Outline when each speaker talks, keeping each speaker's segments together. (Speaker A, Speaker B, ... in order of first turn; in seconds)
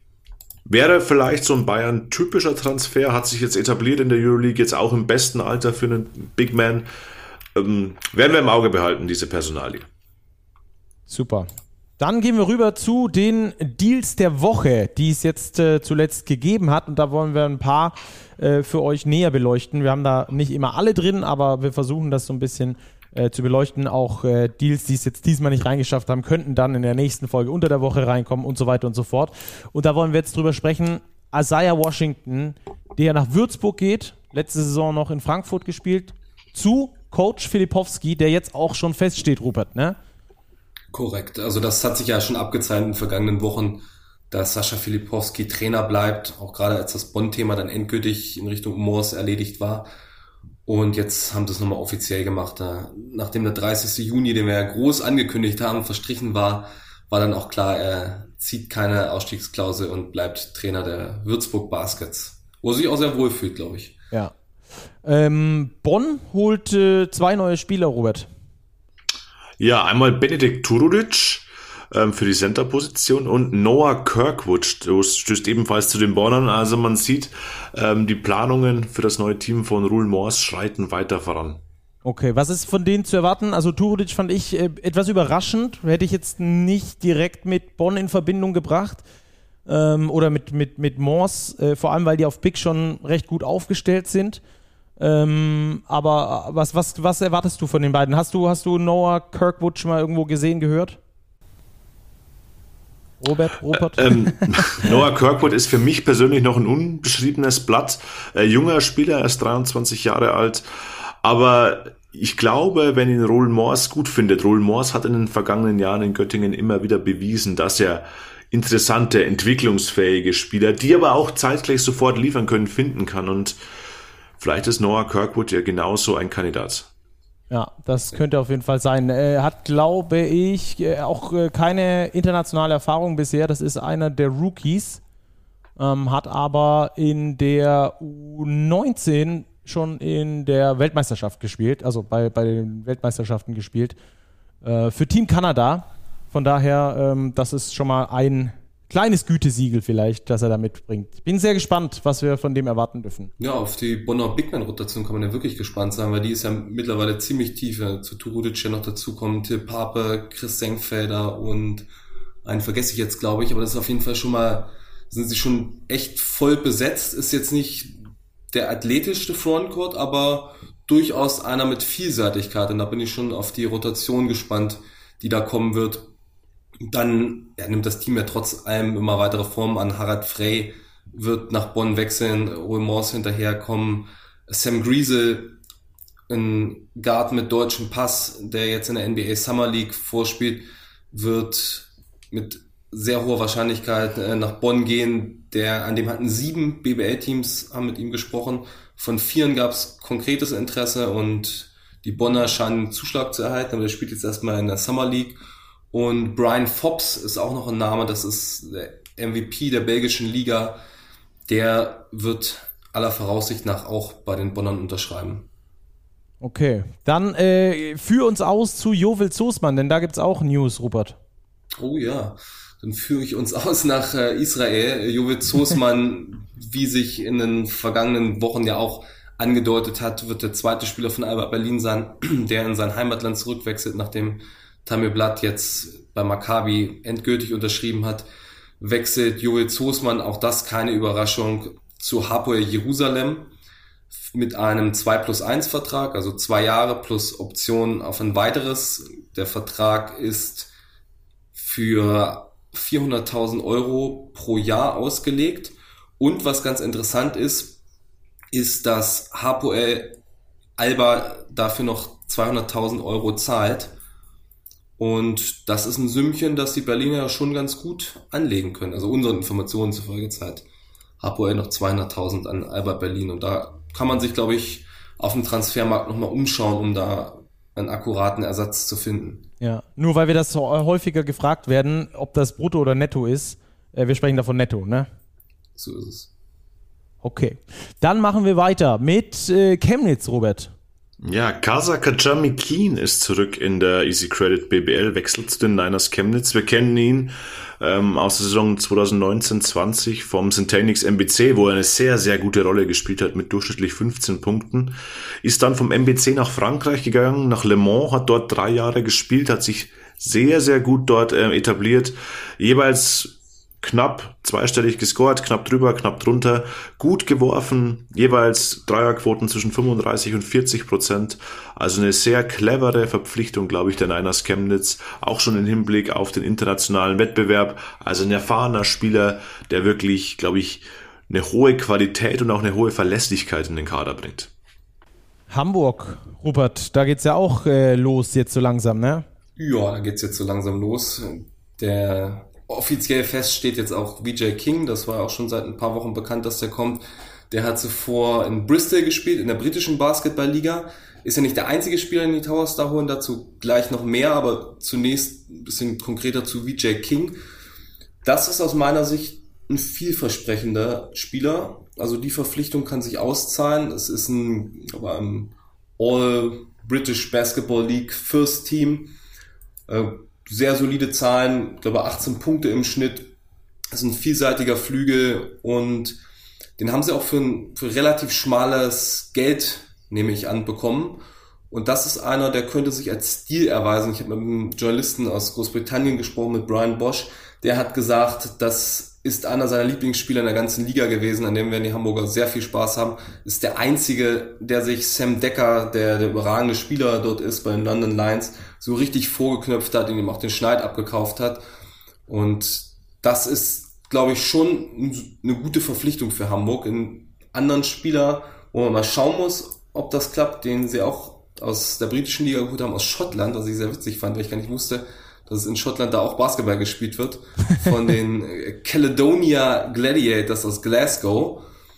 Speaker A: 0.7-6.8, 7.5-9.9, 69.6-81.6, 103.7-123.6, 124.4-126.9, 291.2-334.5
Speaker B: 11.1-40.0, 65.0-68.3, 82.0-89.0, 89.7-94.4, 95.0-101.0, 103.2-105.0, 127.5-135.0, 135.8-143.9, 144.6-153.3, 216.4-221.2, 279.6-285.1, 287.2-290.7, 335.5-339.2
Speaker C: 40.9-49.9, 50.6-64.0, 153.4-161.9, 162.4-168.0, 168.5-176.1, 176.8-185.6, 186.3-205.4, 205.9-210.8, 211.5-215.5, 221.8-238.3, 238.8-243.5, 244.3-250.7, 251.5-257.8, 258.5-260.2, 260.8-263.9, 265.0-270.6, 271.2-279.4, 285.8-286.3, 339.6-357.4, 358.2-369.1, 369.9-373.3, 373.9-376.2, 376.8-401.6, 402.3-421.6